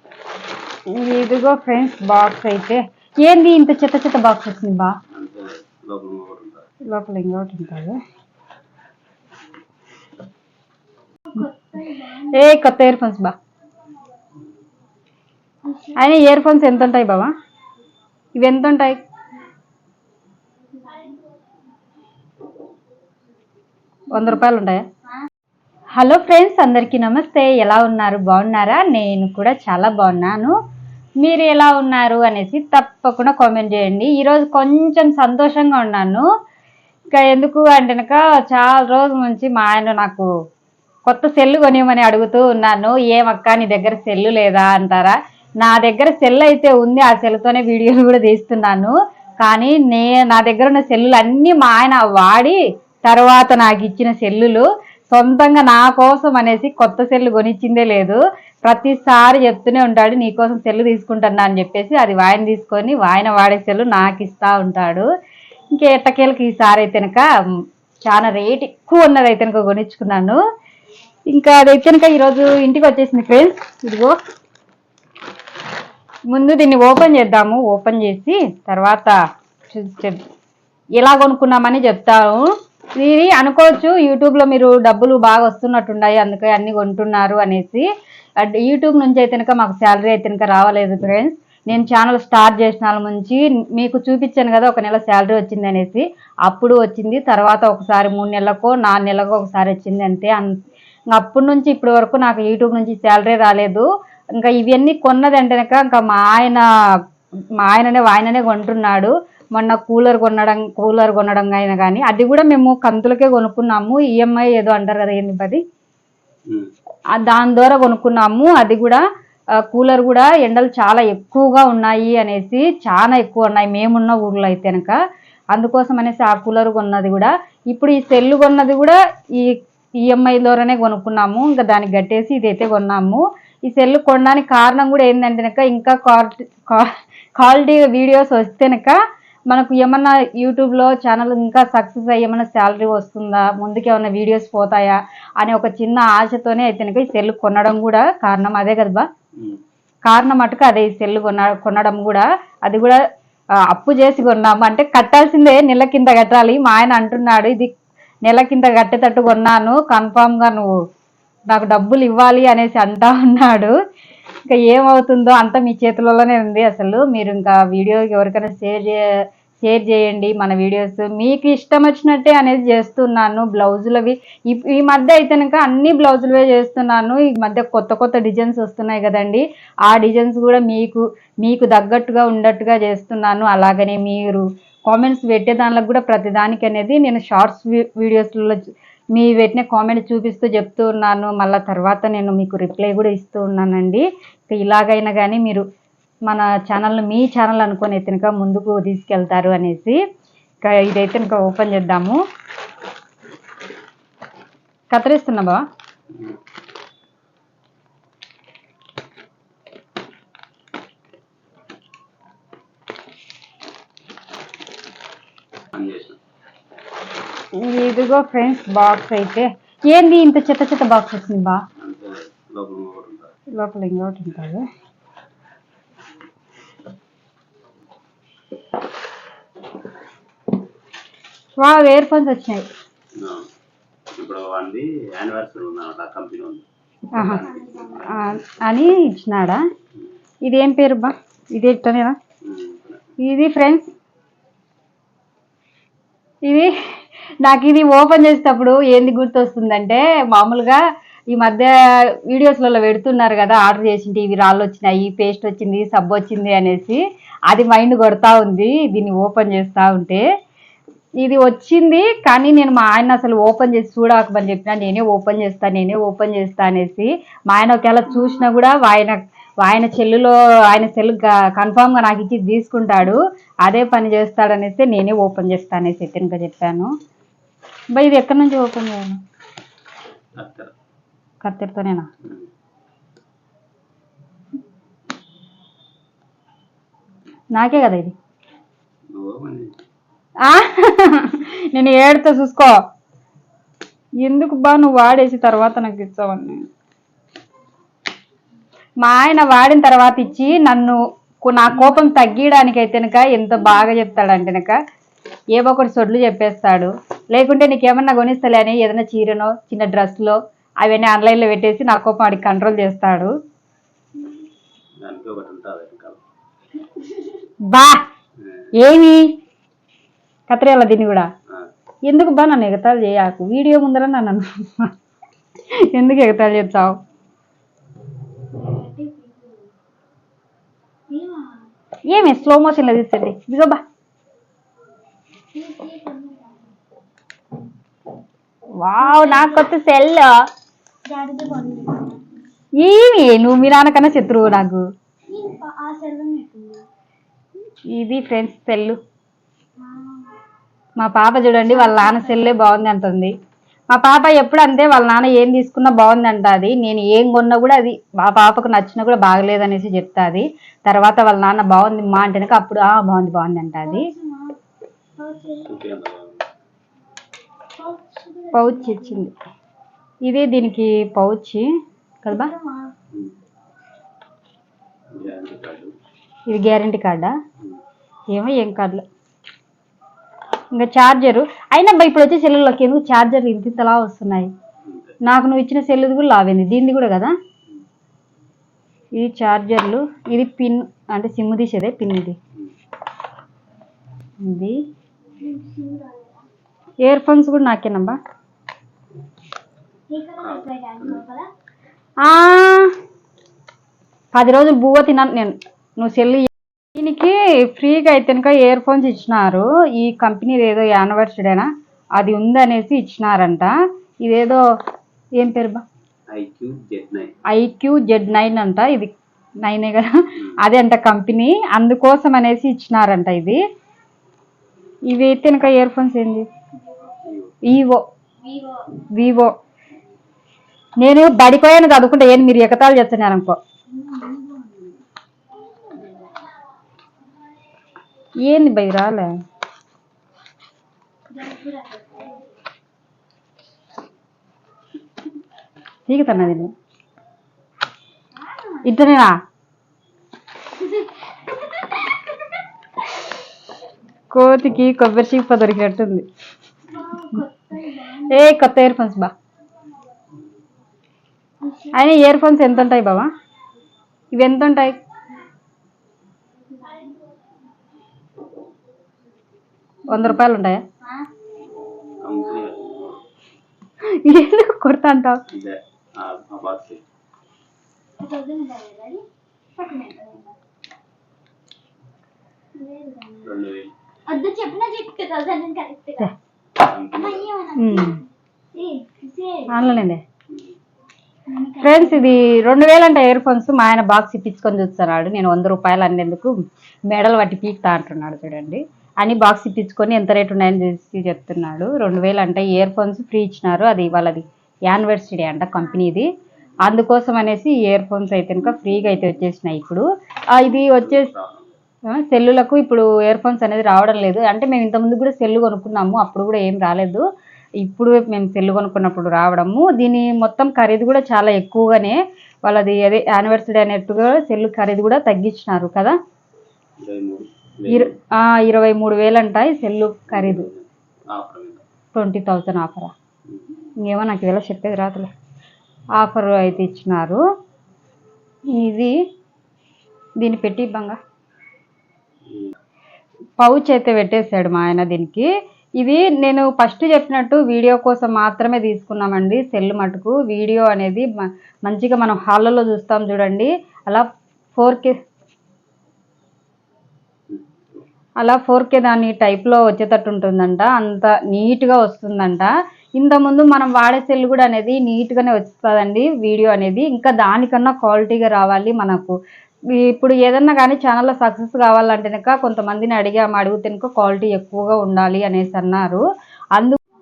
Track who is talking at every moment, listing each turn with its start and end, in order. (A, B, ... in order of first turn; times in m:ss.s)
0:01.0-0:05.0 A
0:05.1-0:06.6 B
0:06.9-0:08.0 A
0:11.3-0:12.6 C
0:12.3-0:13.3 A
0:15.6-0:16.0 C
0:16.0-0:17.3 A
0:18.4-0:19.0 A
0:20.8-0:21.2 C
0:24.1-0:24.8 A
0:26.0-0:30.5 A
0:31.2-0:36.2 A
0:37.1-0:40.3 A
0:41.0-1:05.1 A
1:05.7-1:07.2 A
1:08.0-1:10.4 A
1:11.3-1:14.1 A
1:16.3-1:19.1 A
1:19.7-1:20.2 A
1:21.0-1:27.8 A
1:28.4-1:40.6 A
1:41.1-1:46.6 A
1:47.6-1:55.6 A
1:57.1-1:59.0 A
1:59.7-2:05.0 A
2:05.5-2:19.0 A
2:19.5-2:29.1 A
2:30.1-2:33.0 A
2:33.7-2:37.7 A
2:38.2-2:40.8 A
2:41.5-2:43.7 A
2:44.5-2:49.0 A
2:49.6-3:08.6 A
3:09.1-3:15.6 A
3:16.3-3:20.0 A
3:20.6-3:22.2 A
3:24.9-3:25.6 A
3:35.7-3:36.2 B
3:37.6-3:41.6 A
3:41.8-3:43.3 B
3:43.6-3:44.6 A
3:51.6-3:52.6 A
3:53.2-3:53.5 B
3:54.2-3:58.2 B
3:57.1-3:57.4 A
3:57.5-3:58.0 C
3:58.0-3:59.6 A
4:00.4-4:02.2 A
4:02.4-4:03.0 B
4:03.2-4:03.9 A
4:07.4-4:10.8 A
4:11.3-4:11.7 A
4:12.3-4:20.2 A
4:21.2-4:36.9 A
4:37.9-4:39.2 A
4:40.4-4:40.7 B
4:41.4-4:42.1 A
4:47.5-4:48.1 A
4:49.1-4:49.7 B
4:50.4-4:52.8 A
4:54.2-4:56.6 A
4:59.0-5:04.8 A
5:05.5-5:13.3 A
5:15.0-5:16.2 B
5:17.0-5:17.2 C
5:17.7-5:18.0 A
5:18.8-5:19.3 A
5:20.5-5:21.3 A
5:22.1-5:24.9 A
5:25.9-5:27.0 A
5:28.5-5:29.7 C
5:31.1-5:31.7 C
5:32.1-5:33.8 A
5:35.5-5:36.7 C
5:38.8-5:40.4 A
5:39.0-5:39.7 C
5:41.0-5:42.2 C
5:42.8-5:44.8 A
5:45.3-5:46.8 C
5:47.9-5:49.0 A
5:49.8-5:50.4 C
5:51.0-5:53.3 A
5:51.6-5:52.7 C
5:53.9-6:04.1 A
6:03.8-6:04.6 C
6:05.2-6:05.7 C
6:05.6-6:06.4 B
6:07.8-6:09.2 C
6:08.5-6:09.3 A
6:10.2-6:11.7 A
6:12.2-6:12.5 A
6:12.3-6:12.9 C
6:15.1-6:15.9 B
6:16.5-6:17.3 A
6:18.3-6:19.0 A
6:20.7-6:24.5 A
6:24.8-6:25.2 B
6:25.2-6:27.3 A
6:29.2-6:32.4 A
6:34.4-6:34.8 A
6:35.4-6:36.5 C
6:37.0-6:38.2 A
6:40.1-6:41.5 C
6:40.4-6:41.2 B
6:42.2-6:42.9 A
6:44.3-6:54.6 A
6:55.4-6:55.8 A
6:56.3-6:57.3 B
6:57.5-6:59.1 A
6:59.6-7:03.6 A
7:05.1-7:06.5 A
7:07.2-7:07.5 B
7:07.7-7:08.0 A
7:08.4-7:08.8 C
7:09.1-7:09.5 A
7:11.0-7:13.6 A
7:13.9-7:15.0 C
7:15.7-7:16.4 C
7:18.4-7:19.3 A
7:21.3-7:22.5 C
7:26.1-7:26.7 A
7:28.3-7:28.9 C
7:28.8-7:29.3 A
7:30.8-7:32.6 C
7:34.3-7:36.2 A
7:36.9-7:38.6 C
7:38.3-7:39.3 A
7:41.6-7:42.1 C
7:41.9-7:43.3 A
7:44.3-7:45.0 A
7:46.8-7:47.1 C
7:50.1-7:50.8 A
7:51.0-7:51.3 C
7:52.2-7:53.2 B
7:54.2-7:55.4 A
7:55.5-7:57.0 B
7:58.2-7:59.2 C
7:59.8-8:00.6 C
8:02.7-8:03.6 C
8:03.4-8:03.9 B
8:04.3-8:06.3 C
8:06.8-8:07.5 B
8:07.2-8:09.9 C
8:07.8-8:08.2 A
8:09.7-8:10.2 A
8:10.5-8:10.8 B
8:11.5-8:12.6 C
8:11.8-8:16.5 A
8:17.1-8:26.3 A
8:26.8-8:31.3 A
8:30.8-8:31.8 B
8:32.1-8:37.2 A
8:37.8-8:46.2 A
8:47.0-8:48.1 B
8:47.9-8:50.7 A
8:50.3-8:51.8 B
8:52.1-8:53.1 A
8:54.0-8:55.3 A
8:56.2-8:57.4 A
8:58.7-8:59.1 A
9:00.4-9:01.2 A
9:02.5-9:02.8 B
9:03.6-9:05.5 A
9:06.0-9:11.3 A
9:11.8-9:15.1 A
9:18.4-9:29.3 A
9:30.0-9:36.2 A